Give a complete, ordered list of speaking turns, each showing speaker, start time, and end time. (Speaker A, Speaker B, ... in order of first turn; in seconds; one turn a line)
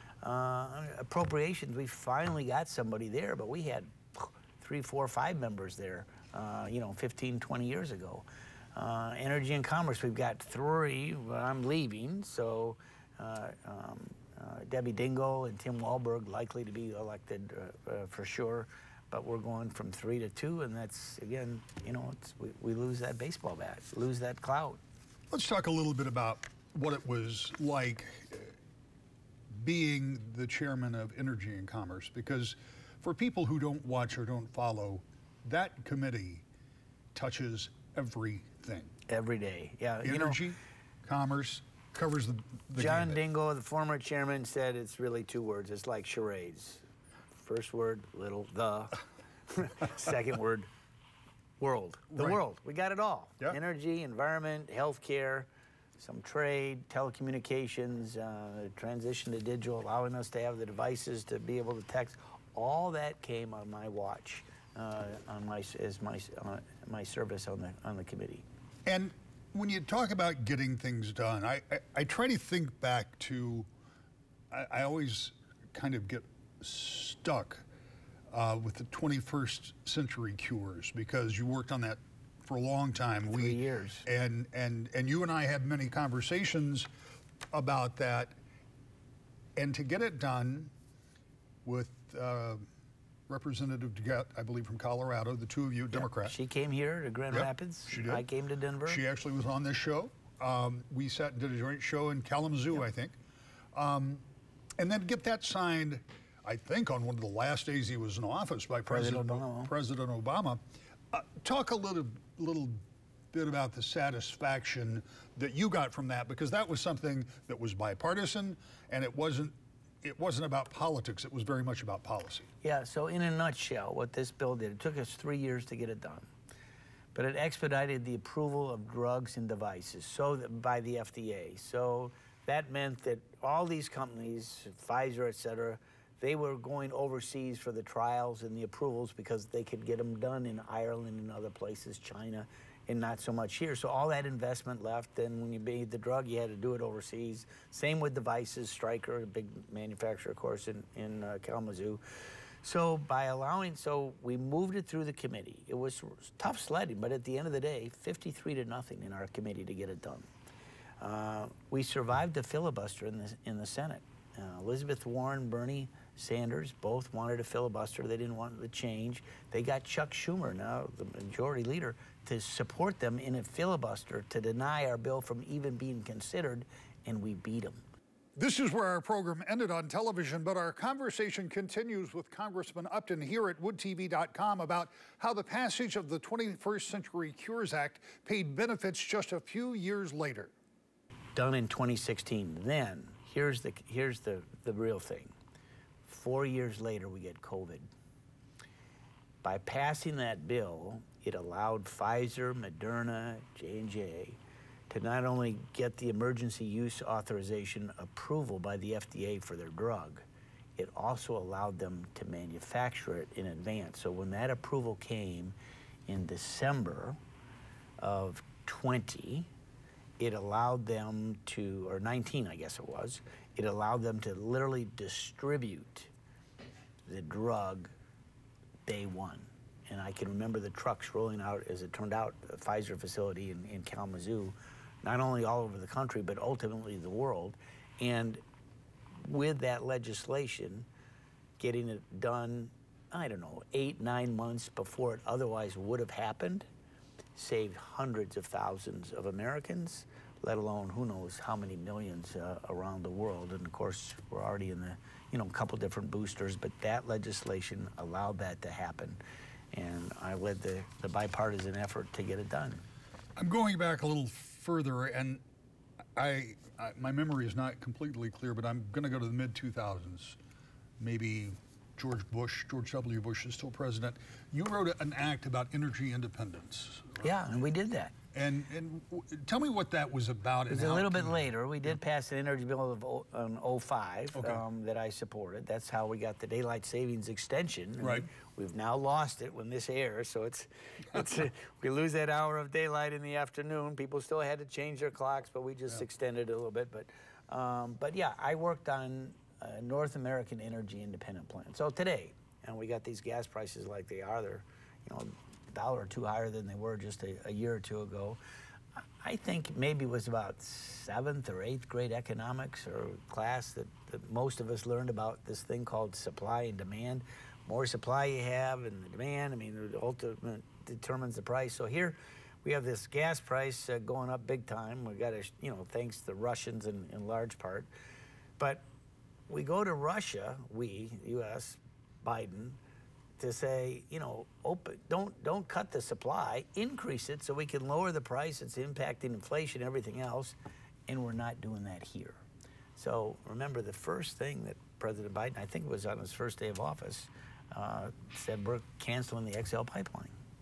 Speaker A: 0.2-24.8
Speaker B: 25.3-28.5
Speaker B: 29.5-36.4
Speaker B: 37.1-38.9
Speaker A: 39.1-40.4
Speaker B: 40.0-43.2
Speaker A: 42.8-46.8
Speaker A: 47.4-50.7
Speaker A: 51.6-68.4
Speaker B: 52.1-52.4
Speaker B: 68.8-73.7
Speaker B: 74.5-77.6
Speaker B: 78.3-86.9
Speaker A: 83.3-84.0
Speaker B: 87.5-88.3
Speaker B: 89.6-90.7
Speaker B: 91.6-92.7
Speaker B: 93.3-96.3
Speaker A: 95.9-99.0
Speaker B: 97.3-98.2
Speaker B: 98.9-103.1
Speaker B: 103.7-104.2
Speaker B: 104.8-110.6
Speaker A: 108.9-109.7
Speaker B: 111.1-112.8
Speaker B: 113.3-122.5
Speaker A: 122.6-126.3
Speaker A: 127.1-152.0
Speaker A: 152.6-160.2
Speaker A: 161.0-177.8
Speaker B: 178.3-190.5
Speaker A: 191.3-195.3
Speaker A: 196.1-197.9
Speaker A: 199.4-204.4
Speaker A: 204.9-210.2
Speaker A: 210.8-215.5
Speaker A: 216.1-217.2
Speaker A: 218.0-219.5
Speaker A: 220.2-226.1
Speaker A: 227.1-227.9
Speaker A: 228.8-238.4
Speaker A: 239.2-240.9
Speaker A: 241.6-246.7
Speaker A: 247.3-259.2
Speaker A: 259.7-262.8
Speaker B: 263.4-265.4
Speaker B: 266.1-270.4
Speaker B: 271.0-277.3
Speaker A: 277.2-278.1
Speaker B: 278.3-281.9
Speaker A: 280.7-308.4
Speaker B: 284.4-284.6
Speaker B: 288.0-288.3
Speaker A: 309.2-327.9
Speaker A: 328.6-328.8
Speaker A: 329.5-332.8
Speaker A: 333.4-340.6
Speaker A: 341.1-342.4
Speaker A: 342.9-350.3